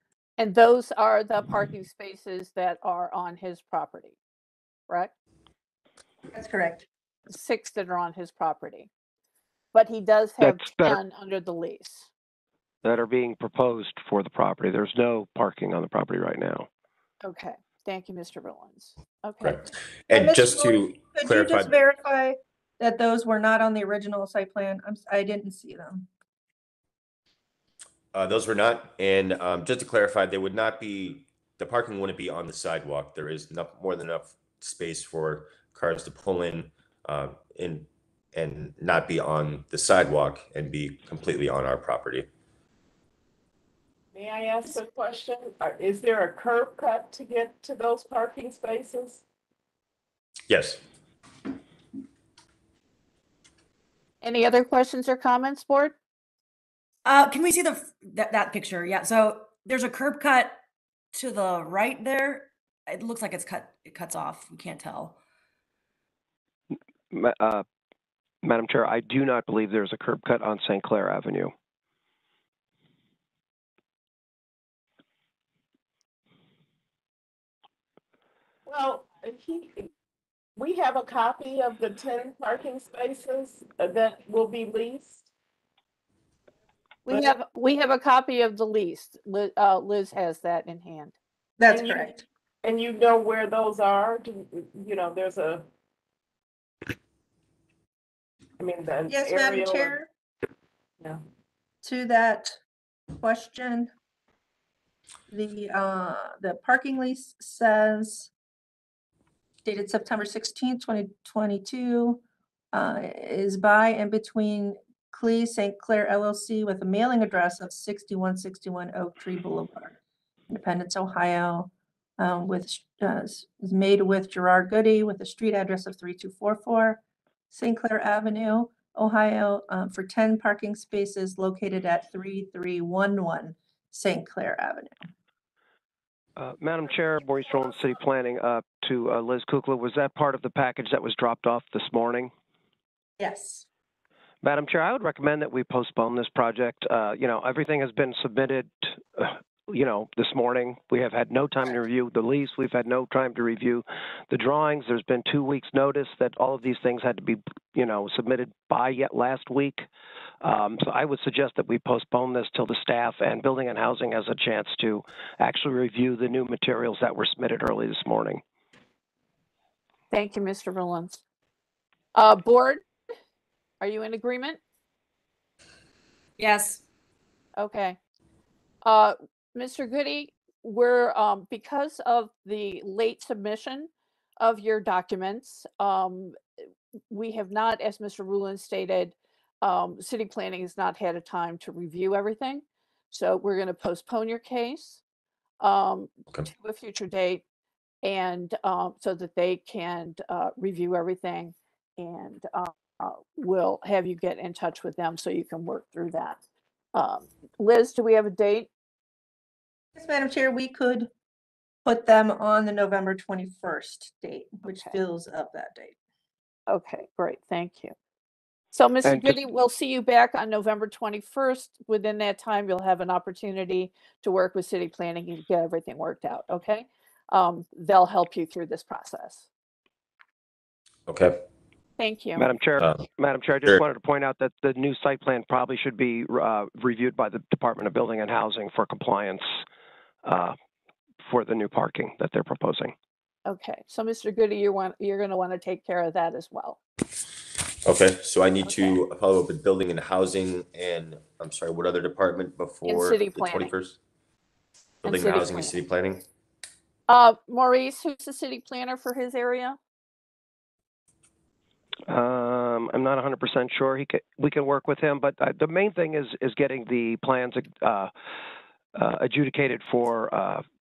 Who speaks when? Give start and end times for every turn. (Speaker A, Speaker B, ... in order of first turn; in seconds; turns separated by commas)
Speaker A: 0.4-4.2, Speaker B: 6.3-6.8, Speaker A: 7.3-8.9, Speaker A: 9.7-12.1, Speaker C: 10.4-11.0, Speaker C: 12.8-16.7, Speaker A: 17.2-19.6, Speaker D: 19.4-21.7, Speaker B: 20.1-26.1, Speaker D: 28.1-42.3, Speaker E: 44.1-49.2, Speaker D: 50.5-50.8, Speaker A: 54.2-56.0, Speaker F: 57.0-60.6, Speaker F: 61.1-65.2, Speaker C: 67.1-67.6, Speaker C: 68.4-71.5, Speaker E: 78.7-79.9, Speaker E: 80.6-85.3, Speaker A: 87.1-91.2, Speaker E: 87.1-87.3, Speaker B: 91.6-92.2, Speaker E: 91.7-92.1, Speaker E: 92.6-95.7, Speaker E: 98.6-100.0, Speaker B: 99.1-100.1, Speaker B: 101.8-102.6, Speaker B: 103.1-103.9, Speaker B: 105.3-108.3, Speaker B: 109.7-112.2, Speaker B: 112.7-120.0, Speaker B: 120.5-135.0, Speaker C: 136.4-142.3, Speaker B: 143.2-143.7, Speaker C: 144.4-159.9, Speaker C: 160.4-168.4, Speaker A: 170.1-171.2, Speaker A: 172.2-172.8, Speaker A: 173.8-174.6, Speaker F: 176.4-176.8, Speaker A: 177.6-178.0, Speaker A: 178.8-186.4, Speaker A: 187.1-195.0, Speaker A: 195.6-197.4, Speaker A: 198.0-206.4, Speaker A: 206.9-208.7, Speaker B: 209.9-211.1, Speaker B: 211.8-216.0, Speaker A: 216.7-217.9, Speaker A: 218.7-229.5, Speaker C: 219.1-219.4, Speaker D: 231.1-231.4, Speaker A: 232.0-232.4, Speaker C: 232.4-239.5, Speaker D: 232.8-233.1, Speaker C: 240.2-240.6, Speaker C: 241.3-242.9, Speaker A: 243.5-246.8, Speaker D: 247.8-254.0, Speaker A: 248.7-248.9, Speaker A: 252.9-253.7, Speaker D: 255.0-256.2, Speaker A: 255.1-255.7, Speaker A: 257.1-259.8, Speaker C: 262.1-268.1, Speaker C: 268.9-270.6